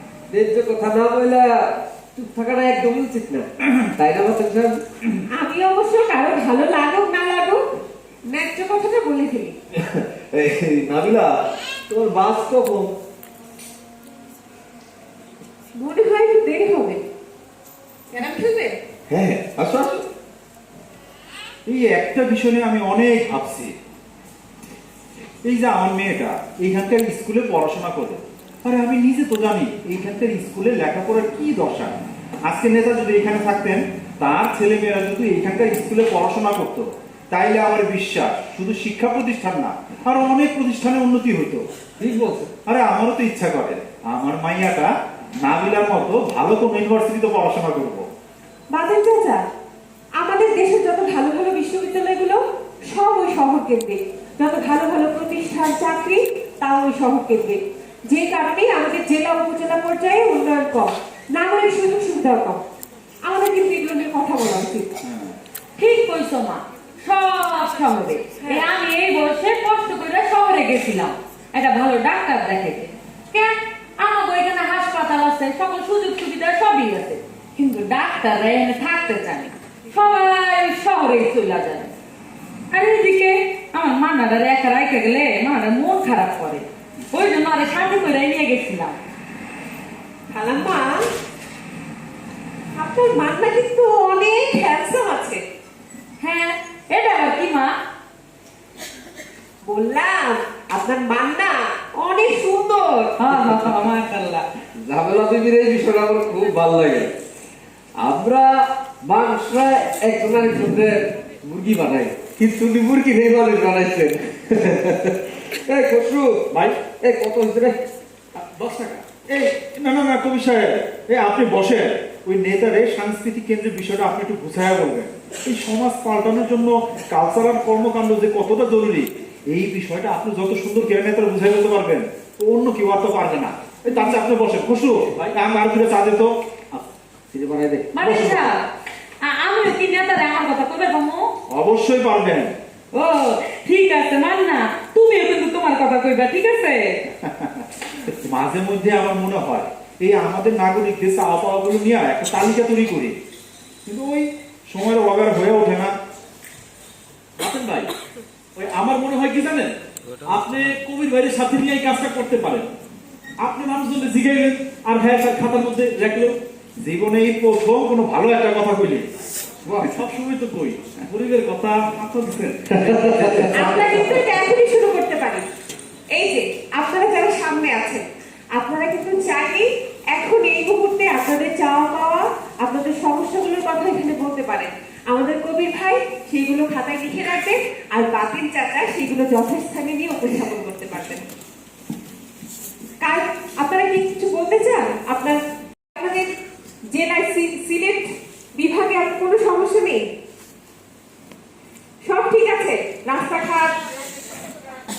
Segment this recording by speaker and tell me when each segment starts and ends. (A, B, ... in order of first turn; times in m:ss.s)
0:00.3-0:04.8 A
0:05.3-0:07.6 B
0:08.3-0:09.6 B
0:09.7-0:13.0 C
0:15.8-0:17.0 B
0:18.1-0:18.8 B
0:19.1-0:20.0 C
0:21.7-0:23.7 D
0:25.4-0:41.7 D
0:42.0-0:42.5 A
0:42.7-0:48.1 D
0:48.7-0:49.4 B
0:50.2-1:02.6 B
1:03.2-1:05.0 B
1:05.0-1:05.4 D
1:05.8-1:21.9 E
1:22.7-1:29.0 E
1:30.3-1:31.0 B
1:32.7-1:35.4 B
1:36.2-1:37.7 E
1:39.6-1:43.2 B
1:43.2-1:44.5 E
1:43.3-1:43.8 A
1:44.8-1:47.1 A
1:48.0-1:48.5 A
1:49.1-1:57.8 A
1:58.6-1:58.9 F
1:59.3-2:16.8 D
2:17.3-2:17.9 A
2:17.9-2:18.7 E
2:18.0-2:18.5 D
2:19.2-2:21.3 E
2:21.5-2:22.5 D
2:22.9-2:27.0 E
2:28.1-2:33.2 D
2:33.9-2:35.9 D
2:37.4-2:37.9 F
2:38.6-2:39.7 D
2:38.7-2:39.6 F
2:40.3-2:42.7 F
2:43.5-2:46.3 F
2:44.6-2:45.2 D
2:46.8-2:49.1 D
2:49.9-2:54.0 F
2:51.2-2:52.1 D
2:52.8-2:54.2 D
2:52.9-2:53.4 A
2:53.5-2:55.5 B
2:56.1-3:11.2 B
3:13.0-3:15.4 B
3:16.0-3:16.3 B
3:16.9-3:20.0 B
3:22.0-3:23.7 B